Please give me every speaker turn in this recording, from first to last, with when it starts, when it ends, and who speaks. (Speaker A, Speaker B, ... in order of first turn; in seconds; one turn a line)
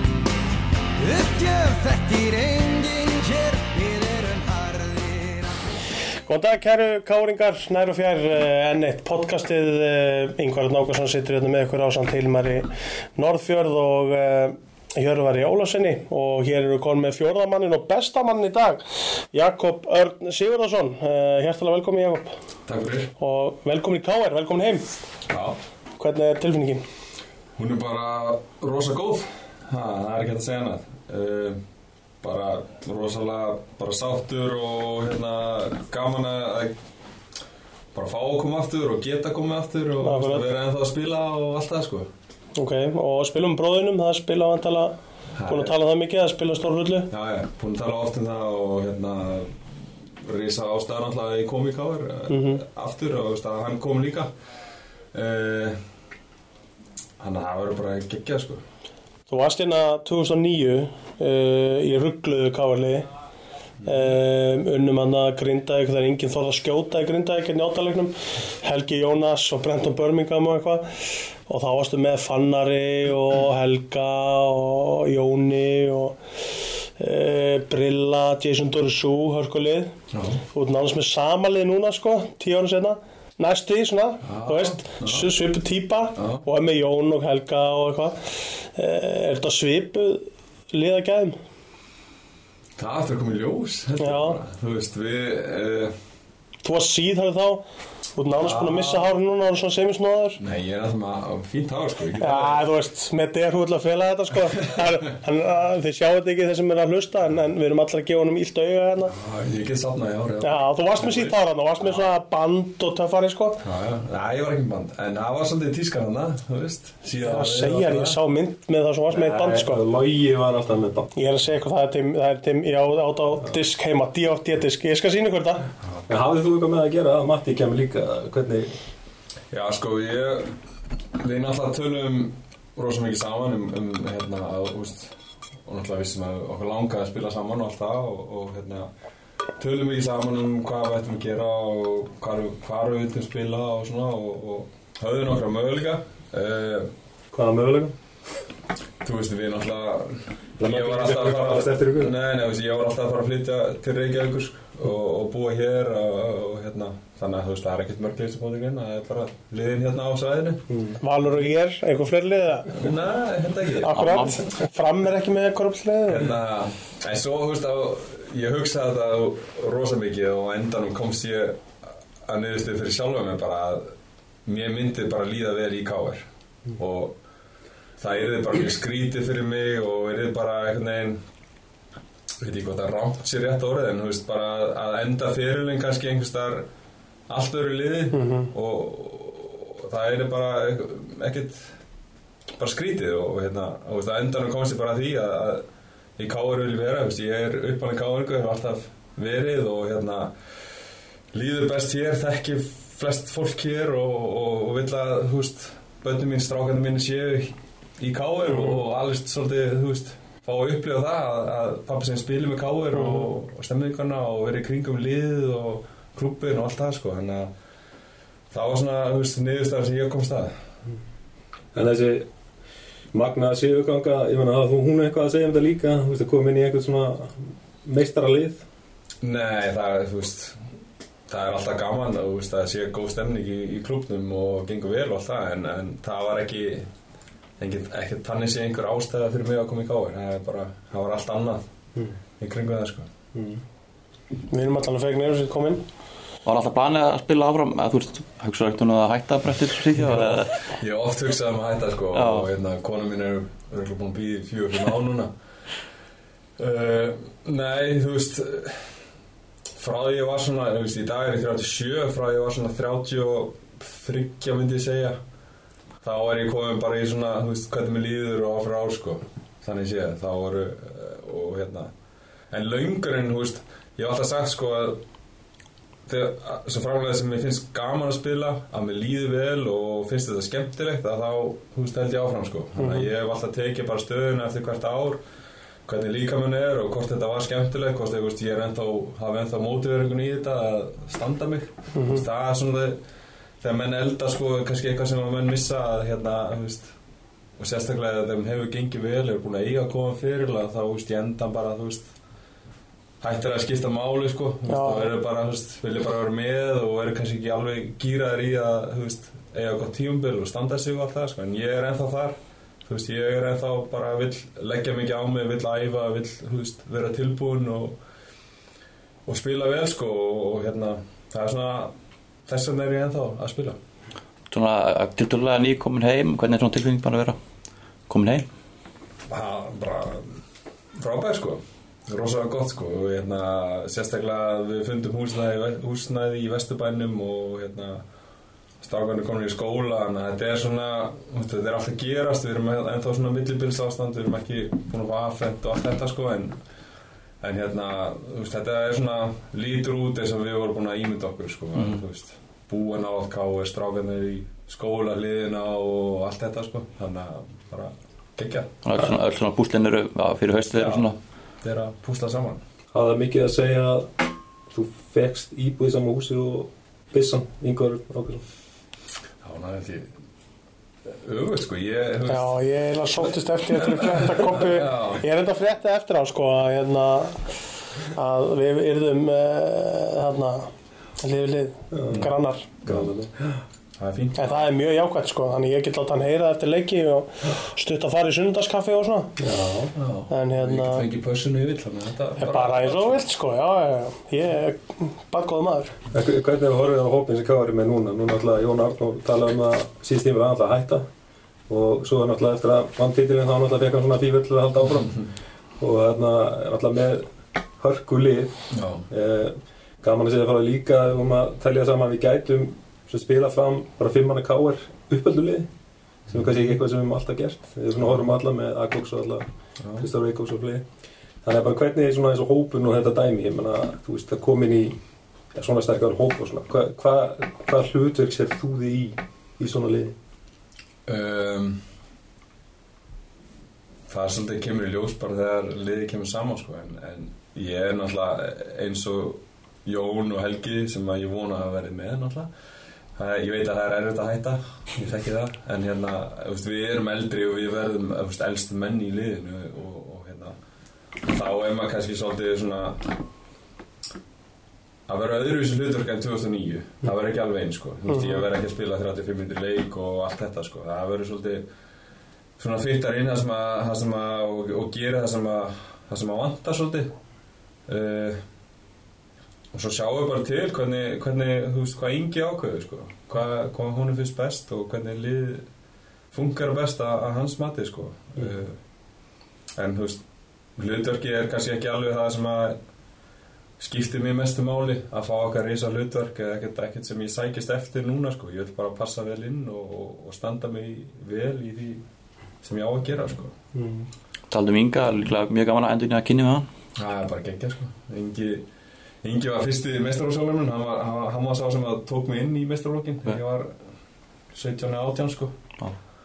Speaker A: 1.0-5.5
Speaker B: 6.3-22.3
Speaker C: 22.6-23.1
Speaker B: 23.2-24.9
Speaker C: 25.3-25.6
Speaker B: 26.0-26.8
Speaker C: 27.6-31.6
Speaker C: 32.2-36.8
Speaker C: 37.9-42.1
Speaker B: 40.0-40.5
Speaker B: 42.5-47.1
Speaker C: 45.3-45.7
Speaker C: 47.1-49.6
Speaker C: 50.2-54.3
Speaker B: 52.3-52.6
Speaker C: 55.1-55.8
Speaker C: 57.2-58.6
Speaker B: 59.3-63.0
Speaker B: 63.8-76.2
Speaker B: 77.0-79.9
Speaker C: 80.1-80.4
Speaker B: 80.5-88.2
Speaker C: 84.2-85.3
Speaker C: 86.2-86.4
Speaker B: 88.7-91.4
Speaker C: 92.8-95.9
Speaker B: 94.0-94.4
Speaker B: 96.6-97.6
Speaker B: 98.1-100.4
Speaker C: 98.4-99.1
Speaker C: 100.4-102.6
Speaker B: 102.2-109.2
Speaker C: 109.1-111.3
Speaker B: 110.4-113.6
Speaker C: 113.6-118.2
Speaker B: 117.2-119.8
Speaker D: 119.1-121.1
Speaker B: 121.1-125.7
Speaker D: 126.1-128.7
Speaker C: 129.5-130.5
Speaker C: 131.2-138.9
Speaker C: 139.6-146.9
Speaker D: 147.3-147.9
Speaker C: 149.0-160.6
Speaker D: 150.6-152.1
Speaker D: 160.7-161.0
Speaker B: 161.0-162.9
Speaker C: 162.7-164.2
Speaker B: 163.8-166.3
Speaker E: 163.9-164.4
Speaker C: 166.1-171.6
Speaker C: 172.2-173.9
Speaker C: 174.4-177.2
Speaker C: 178.0-181.2
Speaker C: 182.4-186.7
Speaker C: 187.3-191.7
Speaker B: 188.1-188.5
Speaker C: 192.6-195.6
Speaker C: 196.2-200.3
Speaker C: 201.3-217.5
Speaker C: 218.5-220.5
Speaker D: 221.7-222.2
Speaker D: 223.1-228.6
Speaker C: 229.2-230.6
Speaker C: 231.3-236.9
Speaker C: 237.6-241.7
Speaker C: 242.4-243.1
Speaker D: 243.3-243.6
Speaker B: 244.5-245.8
Speaker E: 246.4-250.6
Speaker C: 250.0-255.3
Speaker E: 252.1-252.5
Speaker C: 256.6-258.9
Speaker C: 259.8-265.2
Speaker C: 266.0-271.9
Speaker C: 272.5-275.0
Speaker C: 276.1-285.2
Speaker B: 282.8-283.1
Speaker C: 285.9-293.0
Speaker B: 291.9-292.2
Speaker C: 293.6-296.9
Speaker C: 297.6-302.1
Speaker C: 303.2-318.0
Speaker B: 304.7-305.1
Speaker C: 319.2-321.9
Speaker C: 322.4-323.8
Speaker E: 324.5-327.4
Speaker E: 328.1-328.4
Speaker C: 329.3-330.4
Speaker C: 330.9-338.0
Speaker C: 338.8-346.6
Speaker C: 347.4-358.7
Speaker E: 358.8-361.1
Speaker C: 360.7-361.1
Speaker C: 361.6-362.6
Speaker D: 362.9-364.1
Speaker D: 364.7-368.4
Speaker C: 369.4-370.1
Speaker C: 371.1-372.6
Speaker B: 372.3-377.4
Speaker C: 373.7-375.2
Speaker B: 378.1-382.7
Speaker D: 381.9-382.3
Speaker C: 382.8-383.1
Speaker D: 382.8-383.5
Speaker C: 384.0-384.5
Speaker B: 384.4-389.4
Speaker D: 389.4-390.0
Speaker C: 389.9-393.2
Speaker B: 390.3-391.1
Speaker B: 392.4-395.9
Speaker D: 396.1-401.1
Speaker D: 401.7-405.2
Speaker C: 404.8-405.2
Speaker D: 405.8-407.3
Speaker D: 407.8-408.6
Speaker C: 408.7-409.1
Speaker D: 409.1-415.7
Speaker D: 416.3-419.4
Speaker C: 419.8-420.1
Speaker D: 420.0-420.8
Speaker D: 421.4-424.9
Speaker D: 425.5-430.1
Speaker C: 431.1-431.8
Speaker C: 434.1-442.5
Speaker C: 443.1-450.5
Speaker C: 451.2-453.1
Speaker C: 455.1-461.6
Speaker B: 458.1-458.4
Speaker C: 462.6-467.1
Speaker C: 467.9-468.4
Speaker C: 469.7-475.6
Speaker C: 476.3-478.8
Speaker C: 479.8-480.2
Speaker C: 480.8-482.8
Speaker C: 483.8-492.0
Speaker C: 492.6-493.5
Speaker D: 493.7-494.1
Speaker E: 494.5-496.7
Speaker C: 496.9-498.6
Speaker C: 499.2-503.8
Speaker C: 504.5-505.6